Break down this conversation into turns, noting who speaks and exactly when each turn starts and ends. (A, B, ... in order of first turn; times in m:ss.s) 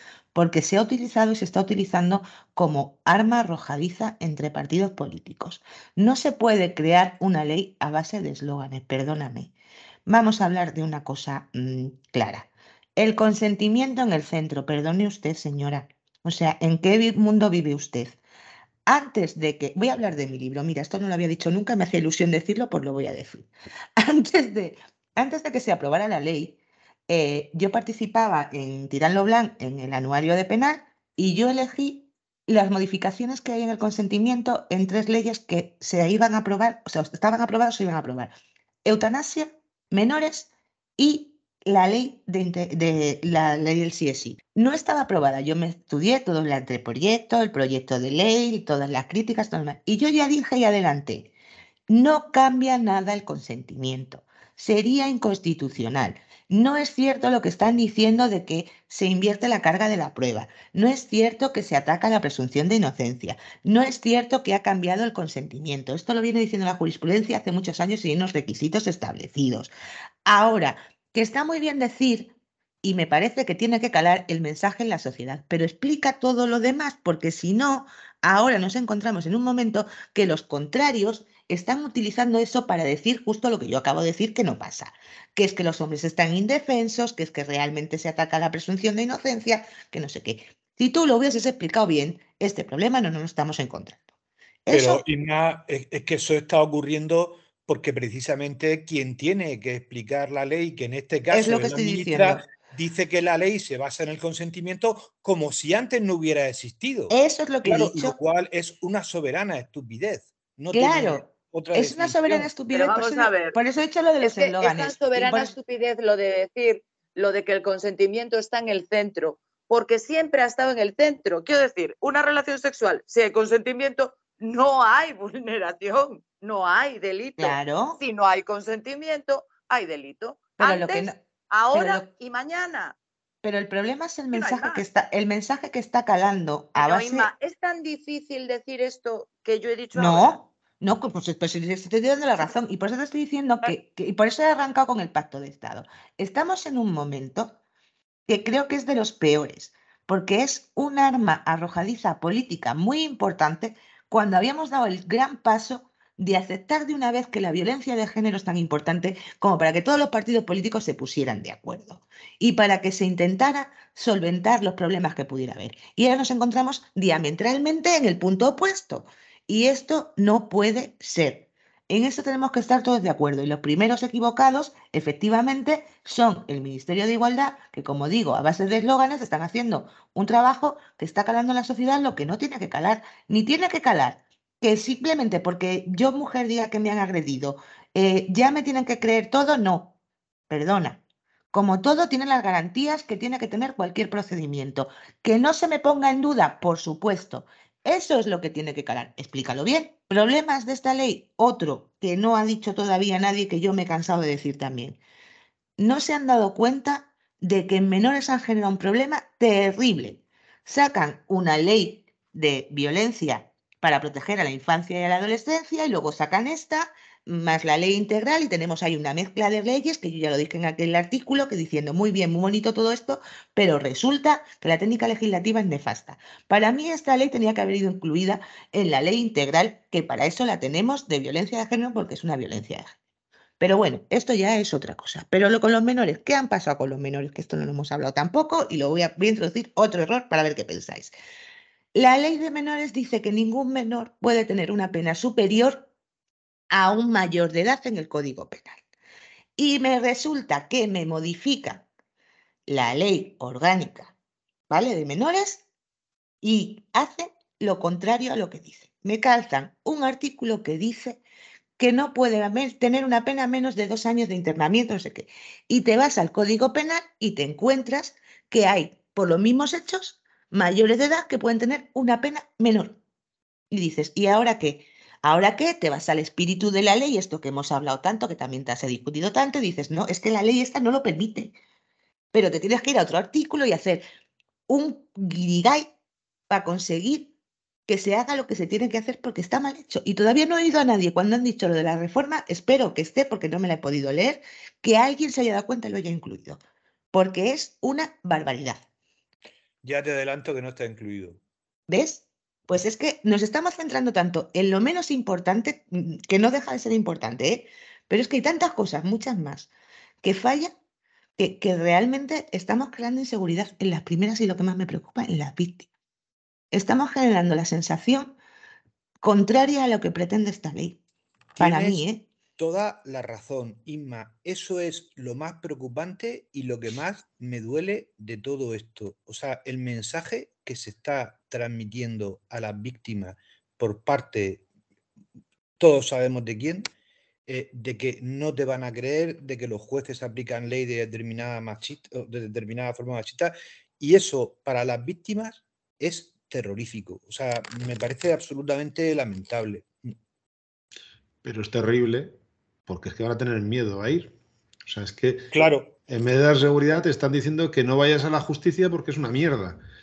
0:00.3-0:09.5 A
0:10.0-0:18.2 A
0:18.8-0:38.3 A
0:38.8-0:51.3 A
0:51.9-1:09.7 A
1:10.2-1:34.0 A
1:34.6-1:35.0 A
1:34.7-1:52.5 B
1:41.3-1:42.4 A
1:47.1-1:48.2 A
1:50.7-1:55.5 A
1:52.7-1:53.6 C
1:54.2-2:13.0 C
2:07.4-2:08.0 A
2:10.6-2:11.2 A
2:11.7-2:12.1 A
2:13.4-2:17.3 A
2:14.3-2:14.8 C
2:16.8-2:20.4 C
2:19.9-2:27.6 A
2:28.3-3:09.9 A
3:10.5-3:11.0 A
3:11.5-3:25.0 A
3:25.8-3:52.9 A
3:53.6-4:01.1 A
4:01.9-4:05.9 A
4:06.7-4:08.8 A
4:09.6-4:11.8 A
4:12.7-4:14.1 A
4:14.7-4:15.6 A
4:16.4-4:21.2 A
4:21.8-4:33.0 A
4:33.7-4:41.5 A
4:42.3-4:44.0 A
4:44.7-4:45.9 A
4:46.5-4:47.3 A
4:47.9-4:56.6 A
4:57.1-4:58.8 A
4:59.8-5:01.4 B
5:01.9-5:09.7 A
5:10.2-5:10.7 A
5:11.4-5:15.9 A
5:16.7-5:18.4 A
5:19.2-5:21.0 A
5:21.6-5:22.0 B
5:21.6-5:22.3 A
5:22.6-5:34.6 B
5:35.8-5:36.9 B
5:37.5-5:50.1 B
5:51.4-5:52.4 D
5:52.9-5:54.3 D
5:54.9-5:55.5 D
5:55.5-5:56.0 B
5:56.1-5:59.8 D